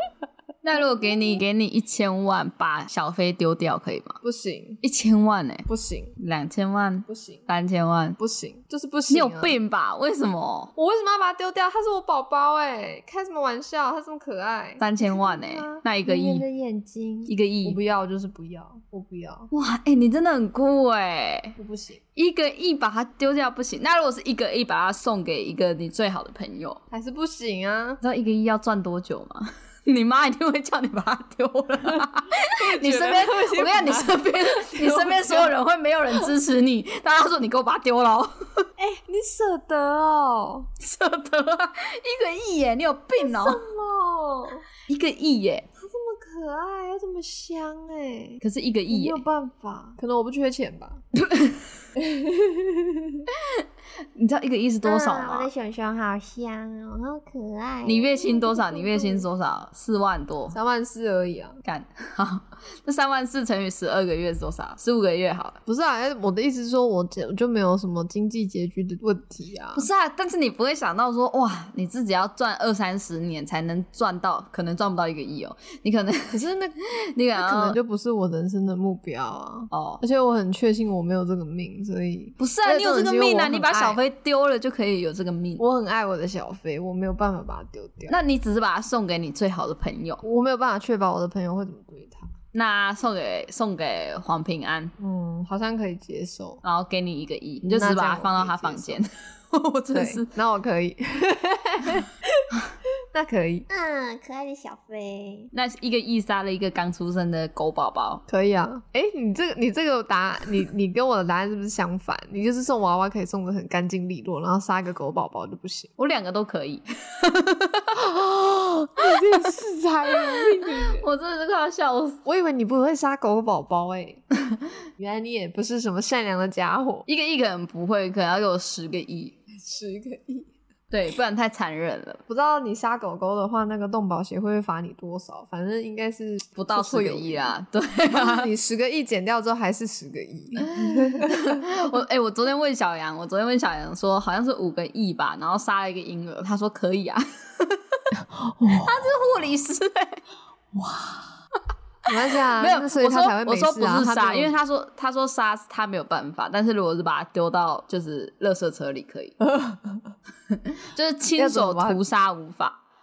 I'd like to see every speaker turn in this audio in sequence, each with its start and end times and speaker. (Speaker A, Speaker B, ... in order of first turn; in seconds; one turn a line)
Speaker A: 0.6-4.2
Speaker B: 4.2-4.8
Speaker A: 4.8-5.7
Speaker B: 5.7-6.2
Speaker A: 6.2-8.2
Speaker B: 7.1-7.4
Speaker B: 8.2-9.6
Speaker A: 9.1-10.7
Speaker B: 10.8-19.5
Speaker A: 14.8-16.4
Speaker A: 17.3-17.8
Speaker A: 19.5-21.6
Speaker B: 21.6-22.0
Speaker A: 22.1-26.8
Speaker B: 26.9-28.0
Speaker A: 28.0-38.7
Speaker B: 32.4-35.5
Speaker B: 38.8-40.7
Speaker A: 40.8-43.6
Speaker B: 43.2-44.6
Speaker A: 44.9-45.6
Speaker B: 45.8-51.0
Speaker A: 48.4-49.2
Speaker A: 51.2-51.7
Speaker B: 52.0-53.2
Speaker A: 53.3-55.5
Speaker C: 54.8-58.3
Speaker A: 57.8-60.5
Speaker B: 58.4-59.2
Speaker B: 60.5-61.6
Speaker A: 61.6-65.6
Speaker B: 65.7-69.9
Speaker A: 69.7-76.4
Speaker B: 76.3-76.8
Speaker A: 77.0-77.8
Speaker B: 77.3-84.0
Speaker A: 79.7-80.0
Speaker A: 82.4-85.6
Speaker B: 85.6-88.2
Speaker A: 88.1-90.2
Speaker B: 90.2-92.3
Speaker A: 92.5-94.9
Speaker B: 95.0-96.6
Speaker A: 96.6-100.3
Speaker B: 97.7-99.0
Speaker B: 99.9-102.6
Speaker B: 103.1-103.7
Speaker C: 103.7-105.5
Speaker A: 105.5-108.2
Speaker B: 108.3-115.9
Speaker A: 116.0-118.0
Speaker B: 117.9-121.0
Speaker A: 119.1-119.5
Speaker A: 120.2-122.2
Speaker B: 122.2-124.2
Speaker B: 125.0-127.1
Speaker A: 127.0-129.3
Speaker B: 129.5-130.5
Speaker A: 130.9-132.2
Speaker B: 132.3-137.5
Speaker A: 136.6-138.5
Speaker B: 138.1-141.7
Speaker A: 140.7-148.0
Speaker B: 148.1-149.1
Speaker A: 148.7-150.2
Speaker B: 150.7-151.3
Speaker B: 152.1-154.5
Speaker A: 152.3-159.3
Speaker B: 159.4-160.0
Speaker A: 160.5-162.8
Speaker B: 161.3-162.0